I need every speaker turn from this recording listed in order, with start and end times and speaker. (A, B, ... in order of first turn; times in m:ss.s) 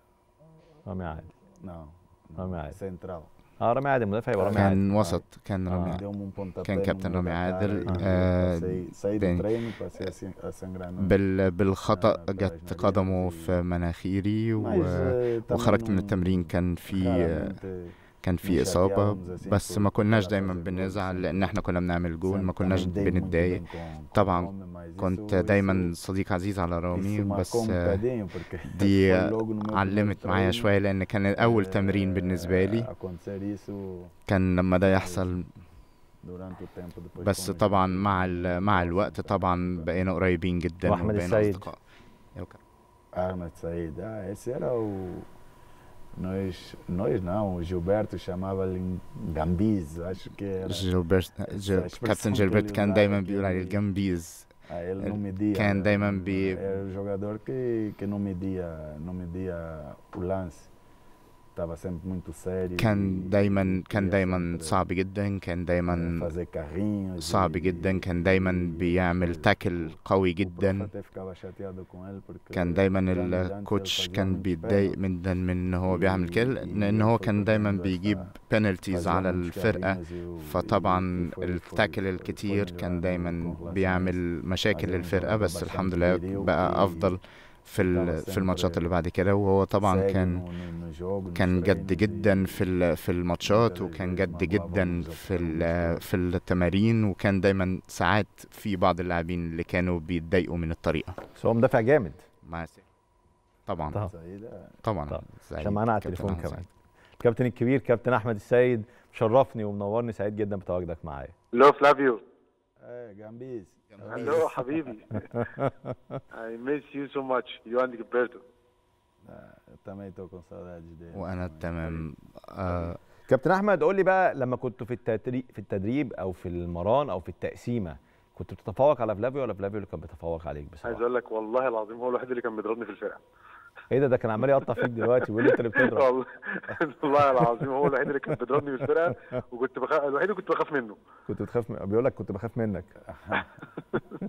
0:00.8-0:01.3 A
0:01.6-0:03.3 B
0:02.4-0:02.8 A
0:03.6-0:04.8 A
0:04.4-0:11.2 B
0:04.6-0:06.0 C
0:06.6-0:09.4 C
0:11.0-0:17.6 C
0:11.8-0:13.6 B
0:14.6-0:21.6 B
0:18.2-0:23.6 C
0:22.2-0:25.9 B
0:24.1-0:28.0 C
0:26.9-0:30.7 B
0:28.6-0:32.9 C
0:31.4-0:34.2 B
0:34.3-0:35.5 C
0:34.8-0:35.5 B
0:36.2-0:39.9 B
0:37.2-0:41.8 C
0:40.8-0:41.6 A
0:43.1-0:45.3 B
0:46.2-0:50.9 B
0:50.6-0:56.6 C
0:51.5-0:53.8 B
0:54.7-1:00.7 B
1:01.5-1:04.8 B
1:02.8-1:06.3 C
1:05.9-1:15.0 B
1:07.2-1:10.9 C
1:12.5-1:30.4 C
1:15.9-1:18.3 B
1:18.9-1:24.2 B
1:24.7-1:27.1 B
1:27.8-1:28.8 B
1:29.8-1:32.6 B
1:31.3-1:41.2 C
1:33.4-1:36.0 B
1:41.3-1:42.3 A
1:42.4-1:42.8 C
1:43.6-1:44.0 C
1:44.0-1:44.8 B
1:44.8-1:46.6 C
1:45.1-1:46.7 A
1:47.2-1:51.3 A
1:51.5-1:52.2 D
1:52.8-1:54.8 B
1:53.9-1:54.5 C
1:54.0-1:55.4 D
1:55.3-1:55.7 A
1:56.3-1:58.4 D
1:59.2-2:02.0 B
2:01.1-2:03.0 C
2:03.3-2:11.0 A
2:10.8-2:13.2 D
2:13.9-2:16.1 A
2:15.4-2:21.0 D
2:17.3-2:17.6 A
2:21.3-2:22.9 A
2:23.0-2:23.5 B